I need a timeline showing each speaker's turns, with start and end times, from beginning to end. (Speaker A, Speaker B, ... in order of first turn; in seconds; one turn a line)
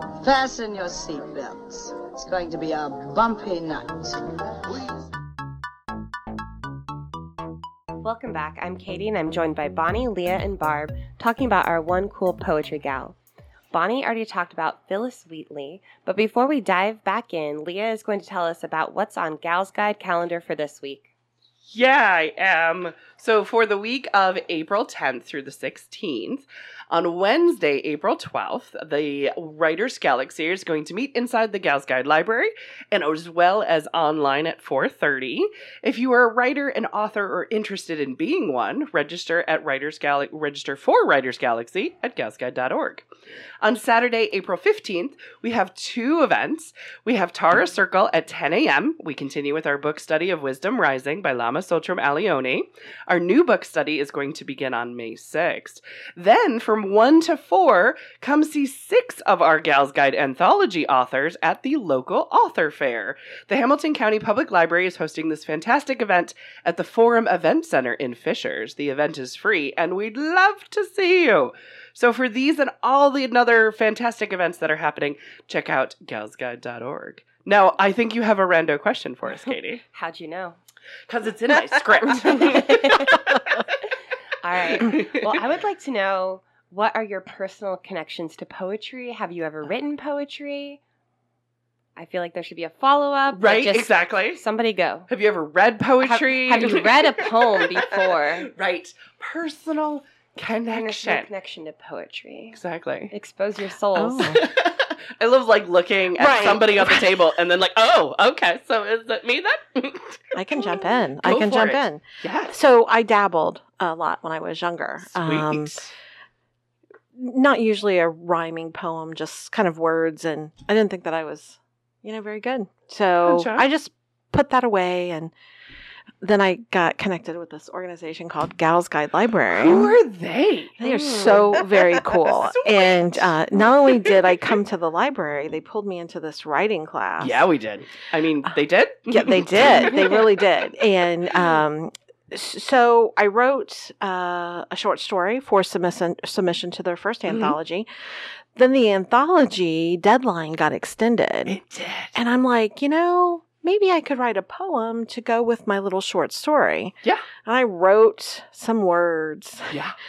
Speaker A: 0.2-5.1
Speaker B: 8.0-13.2
Speaker B: 13.7-21.1
Speaker C: 21.7-43.0
Speaker C: 43.6-79.8
Speaker B: 79.9-80.6
Speaker C: 81.1-83.4
Speaker B: 82.2-83.2
Speaker B: 84.4-90.8
Speaker C: 84.8-85.3
Speaker B: 92.0-95.1
Speaker C: 93.3-94.4
Speaker C: 95.1-101.3
Speaker B: 96.0-98.5
Speaker B: 100.7-102.6
Speaker C: 102.5-103.1
Speaker B: 103.1-104.4
Speaker D: 104.0-104.5
Speaker C: 104.3-112.6
Speaker D: 106.2-107.3
Speaker D: 110.3-115.8
Speaker C: 115.0-115.9
Speaker D: 117.1-125.3
Speaker C: 123.2-123.6
Speaker D: 126.2-130.0
Speaker C: 129.5-133.3
Speaker D: 130.8-137.5
Speaker C: 133.9-134.3
Speaker C: 137.2-140.3
Speaker D: 139.1-147.9
Speaker C: 147.3-147.6
Speaker D: 148.6-151.6
Speaker C: 151.5-152.2
Speaker D: 152.2-159.8